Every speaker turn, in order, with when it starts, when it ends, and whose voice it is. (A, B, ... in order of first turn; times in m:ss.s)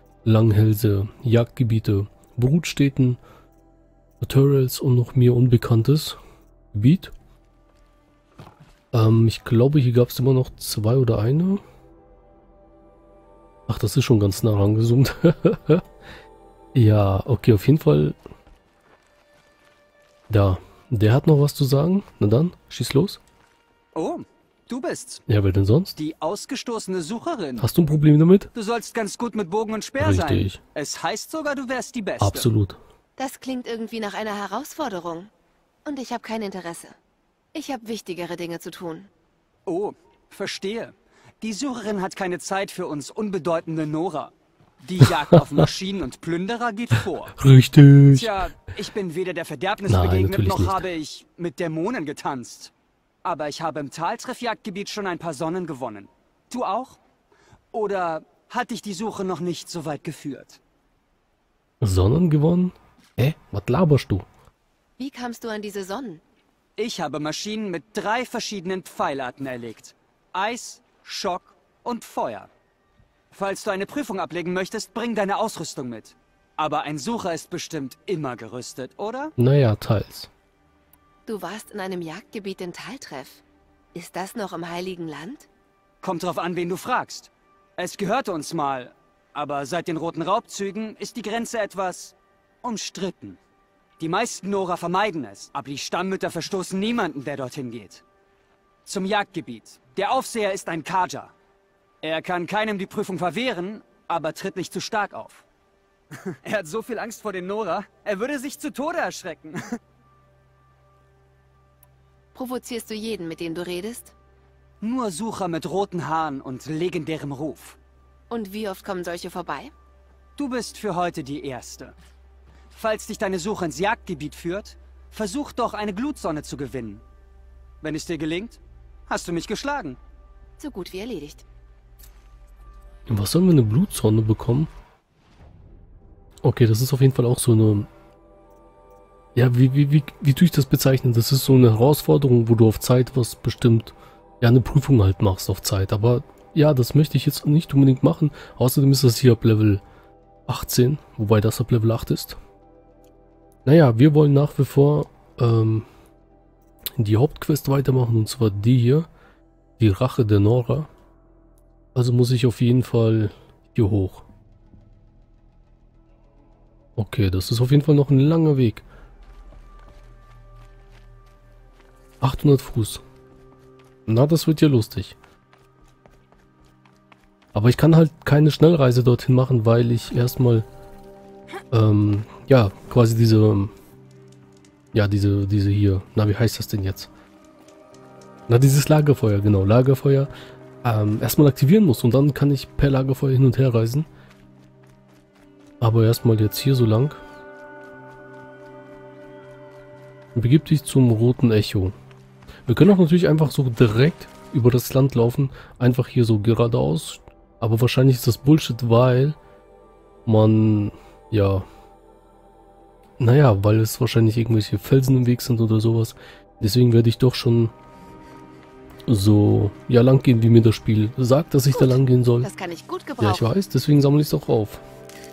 0:00.2-0:03.2 A
0:04.2-0:06.2 A
0:06.7-0:07.1 A
0:08.9-0:11.6 A
0:13.7-0:15.8 A
0:16.7-0:18.2 A
0:20.3-0:23.2 A
0:23.9-0:25.2 B
0:25.3-0:25.9 A
0:26.0-0:27.7 B
0:27.6-0:28.5 A
0:28.5-0:32.5 B
0:30.0-0:30.6 A
0:32.2-0:32.8 A
0:33.2-0:35.3 C
0:35.8-0:37.0 C
0:37.5-0:39.1 C
0:39.7-0:47.3 B
0:45.3-0:45.7 A
0:47.4-0:48.4 A
0:48.1-0:52.7 B
0:49.9-0:50.8 A
0:53.2-0:57.0 B
0:57.7-1:00.6 B
1:01.8-1:04.3 A
1:05.0-1:06.2 C
1:06.8-1:12.5 B
1:13.3-1:19.3 B
1:19.4-1:20.3 A
1:21.2-1:23.4 C
1:23.9-1:25.5 C
1:26.0-1:33.4 B
1:34.0-1:38.0 B
1:38.8-1:41.3 B
1:42.0-1:45.4 B
1:46.2-1:49.8 B
1:52.3-1:54.1 C
1:54.8-1:57.8 B
1:58.3-1:59.7 C
2:00.4-2:01.9 B
2:02.7-2:07.0 B
2:07.8-2:10.0 B
2:10.6-2:11.4 C
2:13.1-2:14.7 A
2:16.4-2:17.9 A
2:19.3-2:29.8 A
2:30.5-2:32.4 A
2:33.6-2:35.9 A
2:37.0-2:39.1 A
2:39.8-2:40.9 A
2:41.9-2:44.3 A
2:47.0-2:48.8 A
2:52.2-2:53.0 A
2:54.0-2:55.2 A
2:57.5-3:00.7 A
3:01.7-3:03.7 A
3:04.9-3:07.1 A
3:08.5-3:10.3 A
3:10.8-3:14.1 A
3:15.8-3:17.2 A
3:20.3-3:21.9 A
3:22.6-3:29.4 A
3:30.2-3:31.6 A
3:33.2-3:37.7 A
3:39.1-3:42.5 A
3:41.7-3:43.5 C
3:43.2-3:44.8 A